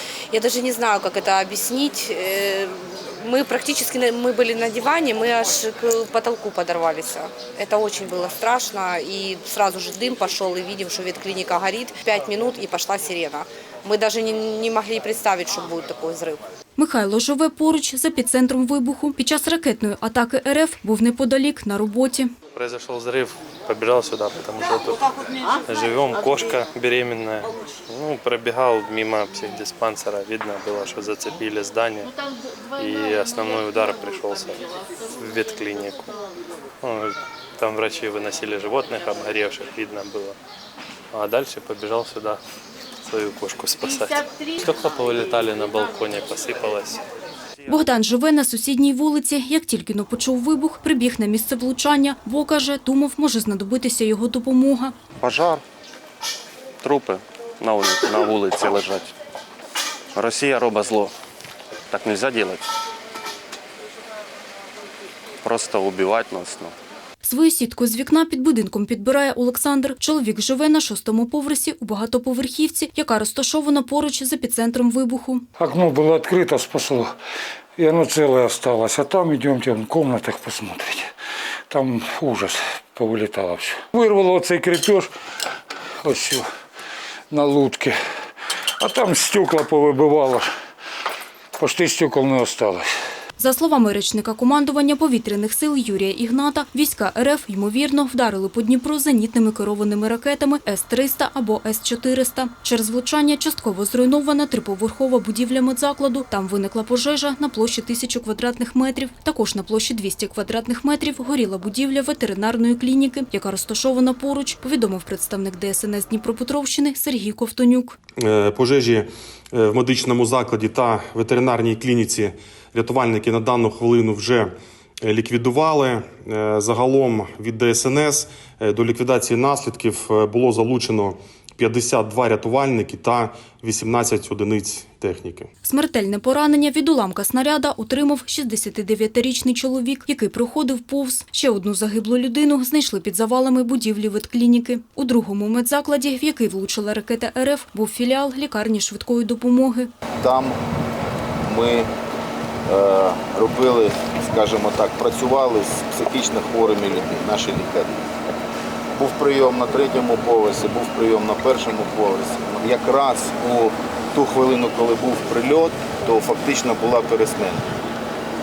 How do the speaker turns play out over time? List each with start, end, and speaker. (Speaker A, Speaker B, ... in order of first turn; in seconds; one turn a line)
Speaker A: 0.3-16.4
Speaker B: 16.8-22.3
Speaker C: 22.5-25.1
Speaker C: 25.6-32.1
Speaker C: 32.8-36.1
Speaker C: 36.8-40.4
Speaker C: 41.1-42.4
Speaker C: 43.1-47.0
Speaker B: 47.7-54.9
Speaker D: 55.2-55.6
Speaker D: 56.8-59.1
Speaker D: 60.1-61.1
Speaker D: 61.9-62.6
Speaker D: 65.4-66.7
Speaker B: 67.2-75.4
Speaker E: 75.6-77.1
Speaker E: 77.8-81.1
Speaker E: 81.7-85.1
Speaker E: 86.0-86.5
Speaker E: 87.3-88.0
Speaker E: 88.8-90.5
Speaker E: 91.6-92.9
Speaker B: 93.4-118.0
Speaker F: 118.2-135.5
Speaker B: 135.6-149.9
Speaker G: 150.2-150.6
Speaker G: 151.4-151.9
Speaker G: 152.7-158.0
Speaker G: 159.0-167.7